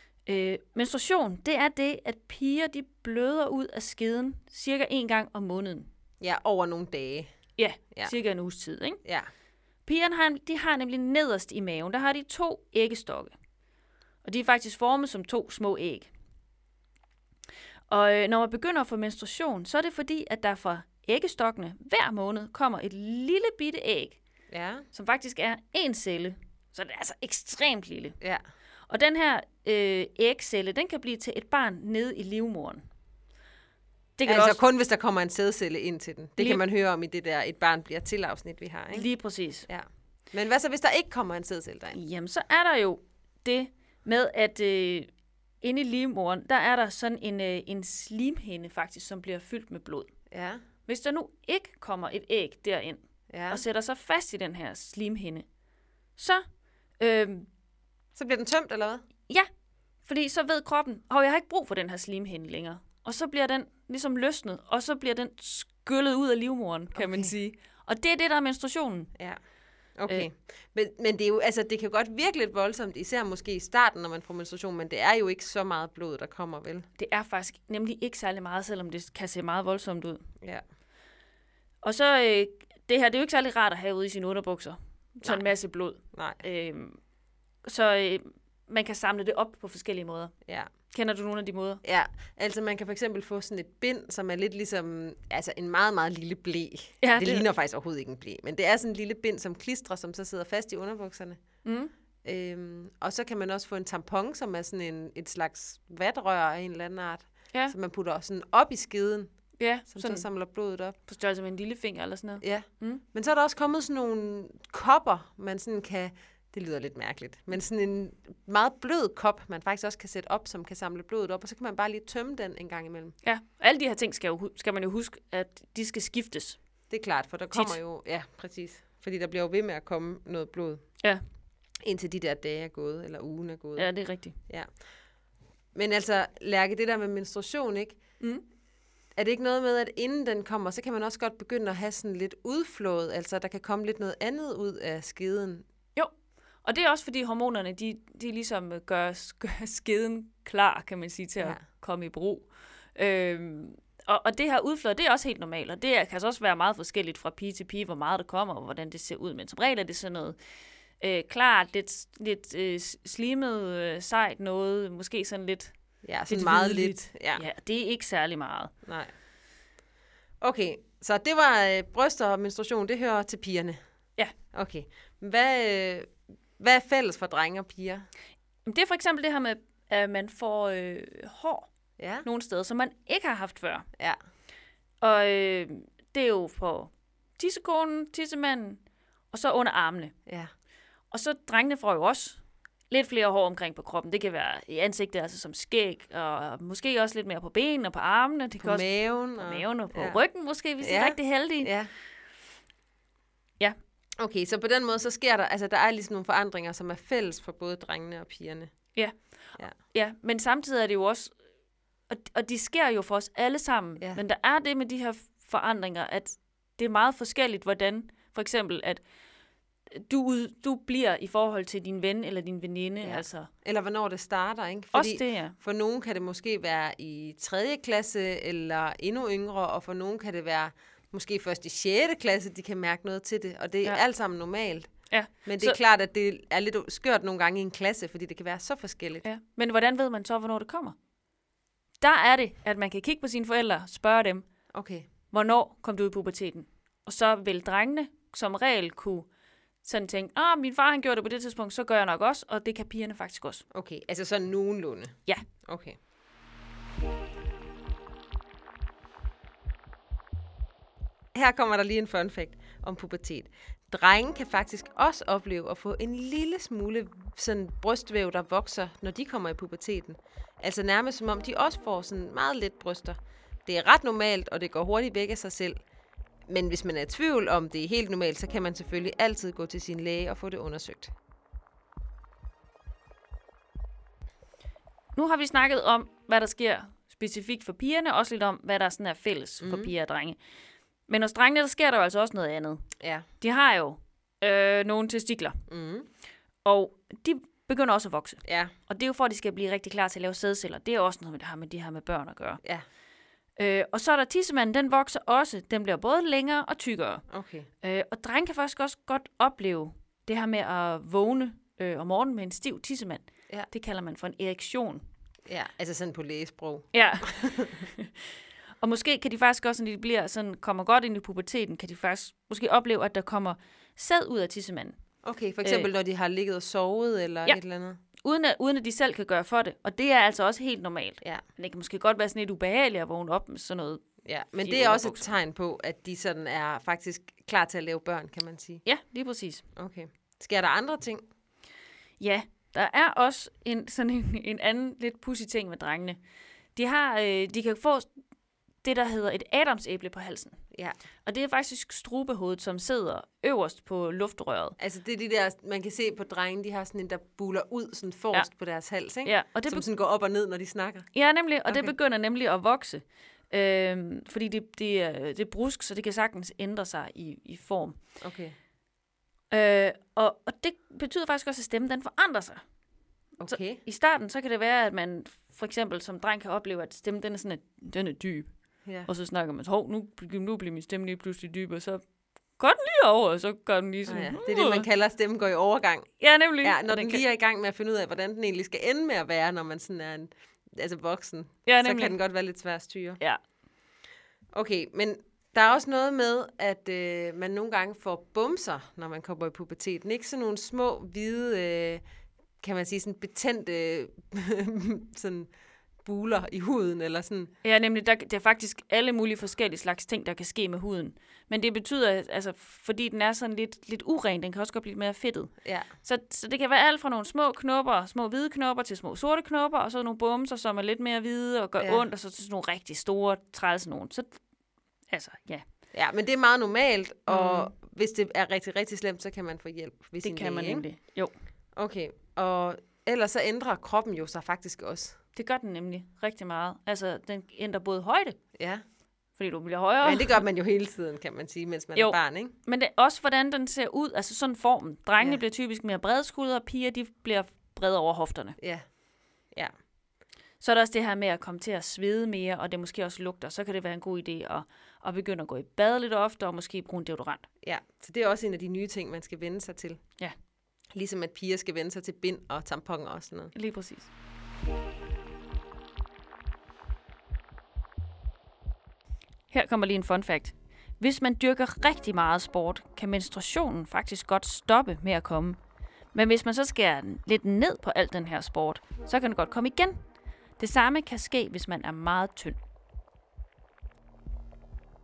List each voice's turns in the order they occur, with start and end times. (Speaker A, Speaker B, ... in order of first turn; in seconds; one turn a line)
Speaker A: 0.2-5.9
Speaker B: 6.2-7.3
Speaker A: 7.6-9.0
Speaker B: 9.0-9.3
Speaker A: 9.8-13.3
Speaker A: 14.2-16.1
Speaker A: 17.9-24.2
Speaker B: 24.5-24.8
Speaker A: 24.9-28.2
Speaker A: 28.9-32.8
Speaker A: 34.2-34.6
Speaker B: 34.2-39.1
Speaker A: 38.9-39.7
Speaker B: 39.7-42.0
Speaker A: 41.9-45.1
Speaker A: 45.6-50.1
Speaker B: 50.3-50.6
Speaker A: 50.9-55.5
Speaker B: 53.3-53.6
Speaker A: 56.2-56.4
Speaker A: 57.0-57.5
Speaker B: 58.1-59.0
Speaker A: 60.0-69.1
Speaker B: 66.9-67.3
Speaker B: 70.0-76.8
Speaker A: 77.0-80.2
Speaker A: 81.8-87.0
Speaker B: 86.1-86.4
Speaker A: 87.6-90.3
Speaker A: 90.9-91.8
Speaker B: 91.8-101.5
Speaker A: 97.0-97.5
Speaker A: 101.6-101.9
Speaker B: 102.2-109.3
Speaker A: 109.6-110.3
Speaker B: 109.9-110.9
Speaker A: 111.0-113.0
Speaker B: 112.4-123.2
Speaker A: 123.2-126.6
Speaker B: 126.9-130.8
Speaker A: 127.5-127.8
Speaker B: 131.8-133.9
Speaker A: 133.8-134.3
Speaker B: 135.7-138.0
Speaker B: 139.2-145.6
Speaker A: 146.6-160.4
Speaker A: 161.0-165.7
Speaker B: 166.0-167.4
Speaker A: 166.3-168.7
Speaker B: 168.8-169.1
Speaker B: 170.4-173.8
Speaker B: 174.5-178.1
Speaker A: 178.7-181.7
Speaker B: 182.0-182.2
Speaker A: 182.2-183.8
Speaker A: 185.0-188.8
Speaker A: 189.3-190.1
Speaker A: 191.1-201.7
Speaker B: 198.6-200.2
Speaker B: 200.8-201.9
Speaker B: 204.2-208.7
Speaker A: 209.7-211.3
Speaker A: 212.1-219.0
Speaker A: 219.9-223.5
Speaker B: 223.0-234.9
Speaker A: 224.9-225.5
Speaker A: 235.1-235.8
Speaker B: 235.4-239.2
Speaker A: 239.2-240.9
Speaker A: 242.0-244.5
Speaker B: 244.7-245.1
Speaker A: 245.3-249.3
Speaker A: 249.8-253.6
Speaker B: 253.7-255.9
Speaker B: 261.3-275.8
Speaker B: 276.5-281.1
Speaker A: 285.1-290.4
Speaker B: 289.6-289.9
Speaker A: 291.1-292.8
Speaker B: 293.0-293.3
Speaker A: 293.4-295.6
Speaker B: 295.7-296.1
Speaker A: 296.6-302.6
Speaker B: 298.4-298.7
Speaker A: 303.6-307.2
Speaker B: 307.3-307.7
Speaker A: 307.8-315.0
Speaker B: 315.5-316.9
Speaker A: 316.9-318.1
Speaker A: 318.8-324.9
Speaker B: 325.2-328.0
Speaker A: 325.6-325.9
Speaker A: 328.2-334.0
Speaker B: 334.2-338.8
Speaker A: 334.6-335.3
Speaker A: 338.8-339.6
Speaker B: 339.8-341.2
Speaker A: 342.2-346.2
Speaker A: 346.8-348.1
Speaker A: 348.8-350.6
Speaker A: 351.2-354.8
Speaker B: 354.8-361.1
Speaker A: 359.2-359.9
Speaker A: 361.1-368.0
Speaker B: 361.7-361.9
Speaker B: 368.2-368.5
Speaker A: 369.5-372.6
Speaker B: 373.4-373.8
Speaker A: 373.4-378.5
Speaker A: 379.1-382.0
Speaker A: 382.6-384.8
Speaker B: 384.1-386.1
Speaker A: 386.2-387.2
Speaker B: 386.6-393.2
Speaker A: 391.6-392.1
Speaker B: 394.5-402.0
Speaker B: 402.6-405.5
Speaker B: 406.0-407.5
Speaker A: 407.6-424.4
Speaker B: 415.6-415.9
Speaker B: 421.8-422.1
Speaker A: 425.1-425.6
Speaker B: 425.9-430.8
Speaker A: 427.3-427.7
Speaker A: 430.2-431.3
Speaker B: 431.8-435.1
Speaker A: 435.3-438.4
Speaker B: 438.6-438.8
Speaker A: 439.4-440.4
Speaker B: 440.0-442.5
Speaker A: 441.9-448.6
Speaker B: 448.6-448.8
Speaker A: 450.6-457.4
Speaker B: 457.6-460.0
Speaker B: 460.9-463.5
Speaker A: 463.5-464.1
Speaker A: 469.5-475.6
Speaker A: 476.1-480.0
Speaker A: 480.6-482.6